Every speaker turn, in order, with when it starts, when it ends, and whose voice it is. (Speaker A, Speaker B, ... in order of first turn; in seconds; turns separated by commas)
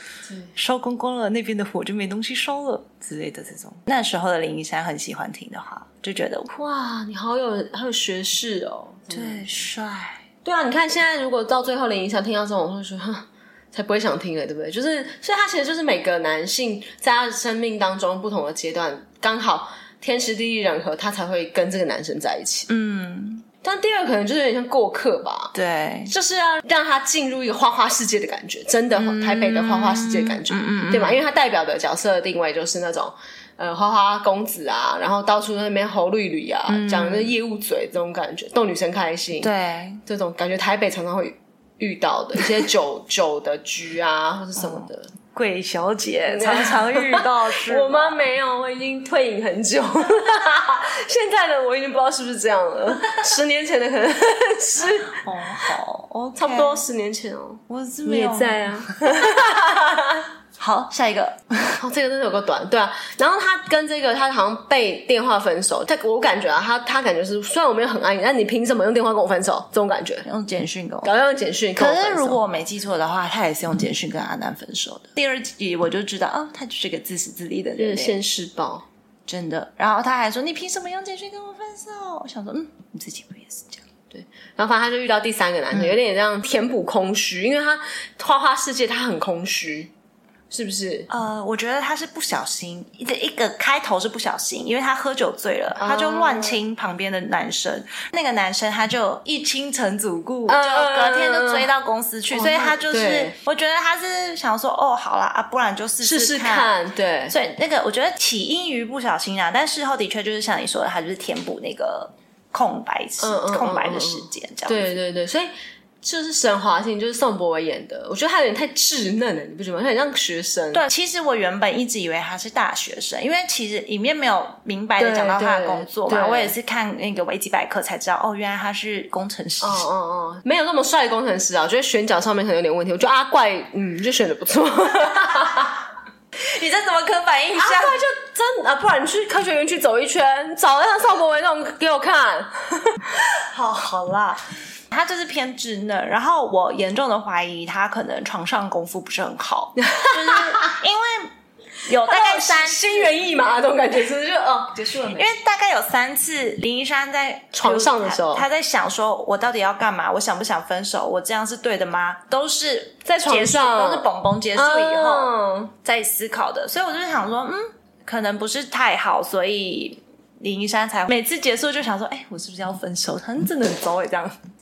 Speaker A: 0.5-6.5, Speaker B: 6.5-9.4, Speaker A: 9.1-10.2, Speaker B: 10.4-22.7, Speaker A: 22.7-23.4, Speaker B: 23.6-25.5, Speaker A: 25.5-26.1, Speaker B: 26.1-39.5, Speaker A: 28.9-31.2, Speaker A: 36.7-37.4, Speaker A: 39.4-40.0, Speaker B: 40.1-45.1, Speaker A: 44.6-48.2, Speaker B: 46.3-55.2, Speaker A: 55.0-56.9, Speaker B: 56.4-60.3, Speaker A: 57.7-59.5, Speaker A: 60.6-61.8, Speaker B: 61.8-70.2, Speaker A: 70.2-71.1, Speaker B: 71.0-72.4, Speaker A: 71.8-78.2, Speaker B: 77.8-78.8, Speaker A: 79.3-83.8, Speaker B: 84.1-89.9, Speaker B: 90.5-91.1, Speaker A: 91.1-106.7, Speaker B: 95.8-96.6, Speaker B: 100.5-101.7, Speaker B: 102.3-103.3, Speaker B: 106.0-107.3, Speaker A: 107.3-115.0, Speaker B: 113.2-120.8, Speaker A: 120.7-129.9, Speaker B: 125.0-126.5, Speaker B: 129.6-135.8, Speaker A: 136.3-138.0, Speaker B: 137.5-143.0, Speaker A: 143.5-151.3, Speaker B: 149.8-150.8, Speaker A: 151.8-153.1, Speaker B: 152.0-155.3, Speaker A: 155.1-174.3, Speaker B: 157.5-158.4, Speaker B: 163.1-165.7